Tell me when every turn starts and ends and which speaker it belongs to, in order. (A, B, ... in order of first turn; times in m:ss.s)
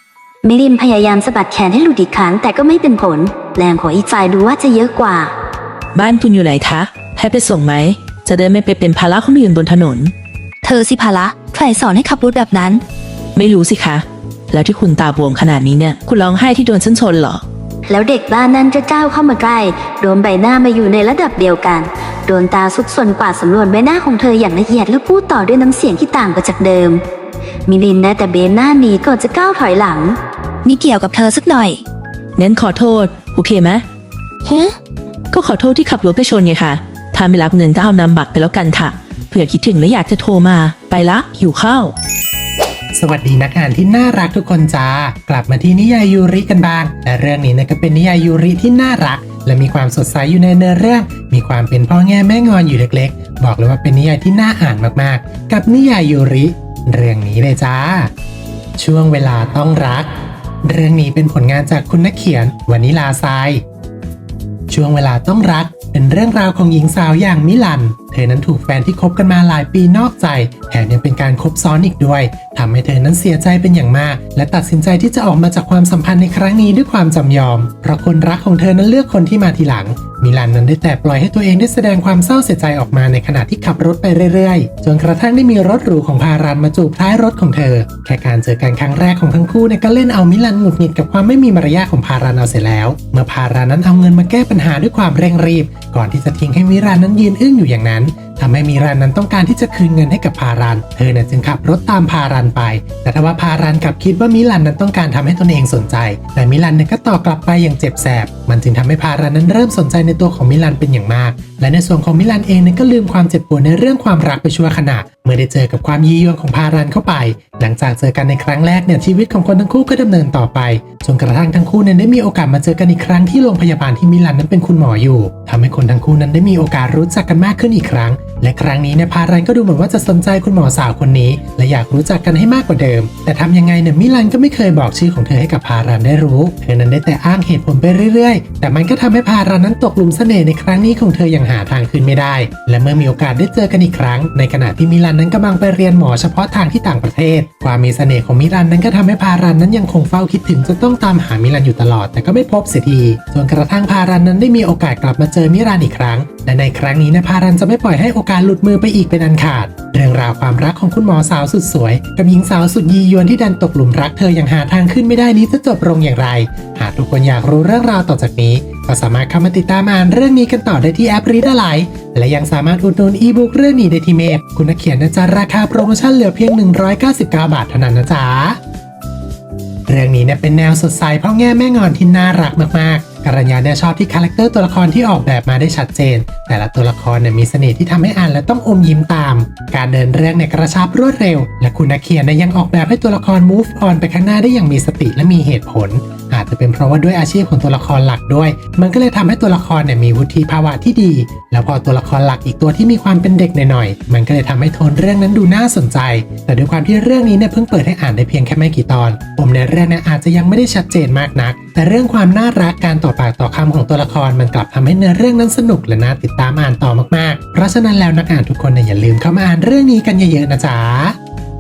0:00.4-0:05.3 A
0:05.9-0:10.1 B
0:10.6-0:12.8 C
0:13.4-0:17.4 B
0:17.9-0:27.0 A
0:27.7-0:30.2 A
0:30.6-0:31.8 C
0:32.4-0:33.8 B
0:34.5-0:34.7 C
0:35.3-0:41.9 B
0:43.0-0:58.1 D
0:58.8-1:00.1 D
1:00.6-1:03.6 D
1:04.7-2:58.6 D
2:59.9-3:41.2 D